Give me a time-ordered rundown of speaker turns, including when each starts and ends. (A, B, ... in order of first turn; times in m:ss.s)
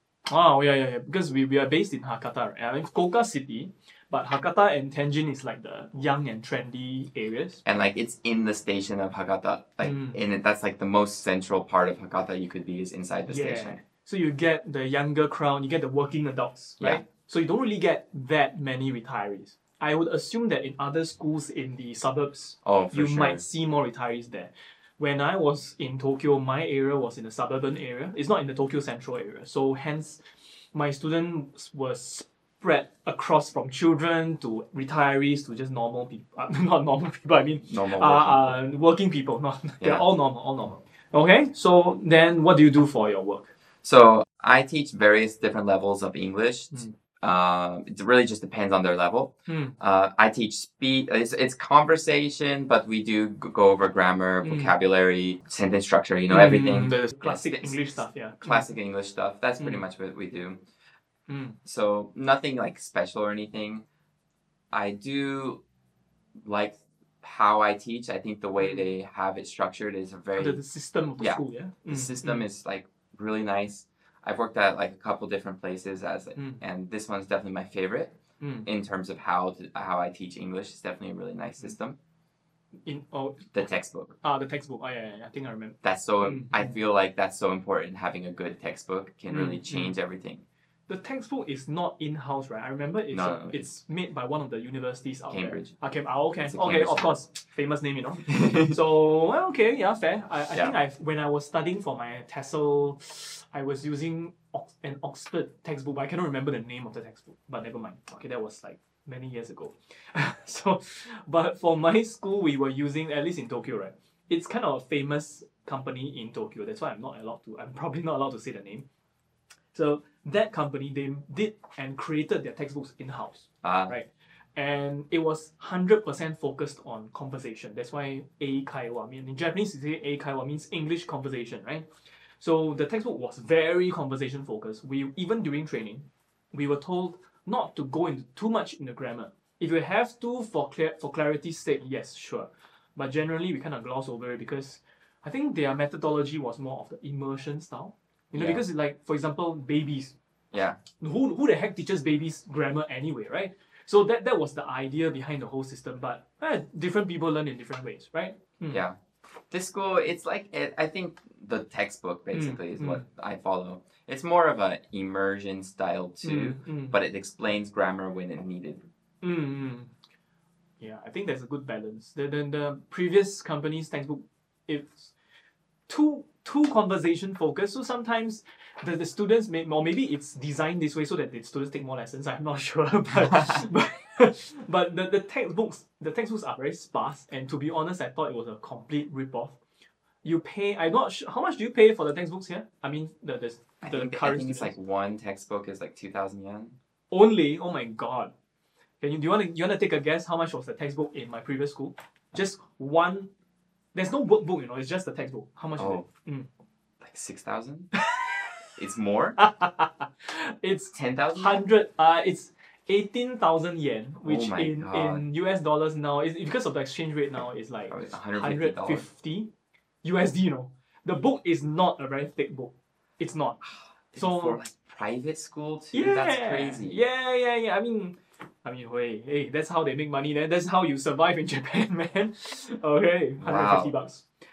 0:00.3-0:07.6 A
0:07.6-0:13.8 B
0:09.8-0:10.2 A
0:13.3-0:30.2 A
0:22.6-0:23.4 B
0:30.7-0:43.5 A
0:37.6-0:38.6 B
0:39.8-0:40.1 B
0:43.8-1:00.6 B
0:49.5-0:49.8 A
0:54.4-0:54.7 A
0:56.3-0:58.7 A
0:59.6-0:59.8 A
1:01.3-1:01.6 A
1:01.6-1:03.8 B
1:04.7-1:05.6 B
1:06.4-1:10.6 B
1:08.6-1:08.9 A
1:10.4-1:12.5 A
1:11.2-1:18.2 B
1:16.4-1:16.6 A
1:18.4-1:18.7 A
1:18.7-1:22.0 B
1:22.8-1:23.6 A
1:23.5-1:24.2 B
1:24.2-1:26.8 A
1:25.8-1:30.4 B
1:29.3-1:30.0 A
1:30.9-1:58.9 A
1:33.1-1:33.7 B
1:35.3-1:35.7 B
1:36.4-1:37.2 B
1:38.4-1:38.7 B
1:59.7-2:11.9 A
2:03.6-2:04.0 B
2:12.4-2:30.2 A
2:28.4-2:28.6 B
2:30.5-2:30.8 B
2:31.0-2:38.8 A
2:38.7-2:39.0 B
2:39.5-2:48.8 B
2:42.3-2:43.0 A
2:46.2-2:47.0 A
2:49.2-2:49.9 A
2:50.8-2:55.1 A
2:55.9-3:09.6 A
3:10.2-3:14.7 A
3:13.8-3:16.8 B
3:17.1-3:18.3 A
3:19.0-3:23.3 A
3:23.9-3:26.5 A
3:25.8-3:26.0 B
3:27.0-3:27.9 B
3:27.9-3:28.4 A
3:28.8-3:29.4 B
3:29.4-3:39.5 A
3:30.9-3:31.6 B
3:34.2-3:35.2 B
3:37.9-3:39.1 B
3:40.0-3:43.6 A
3:44.1-3:47.0 B
3:44.2-3:44.6 A
3:45.9-3:54.3 A
3:53.4-3:53.9 B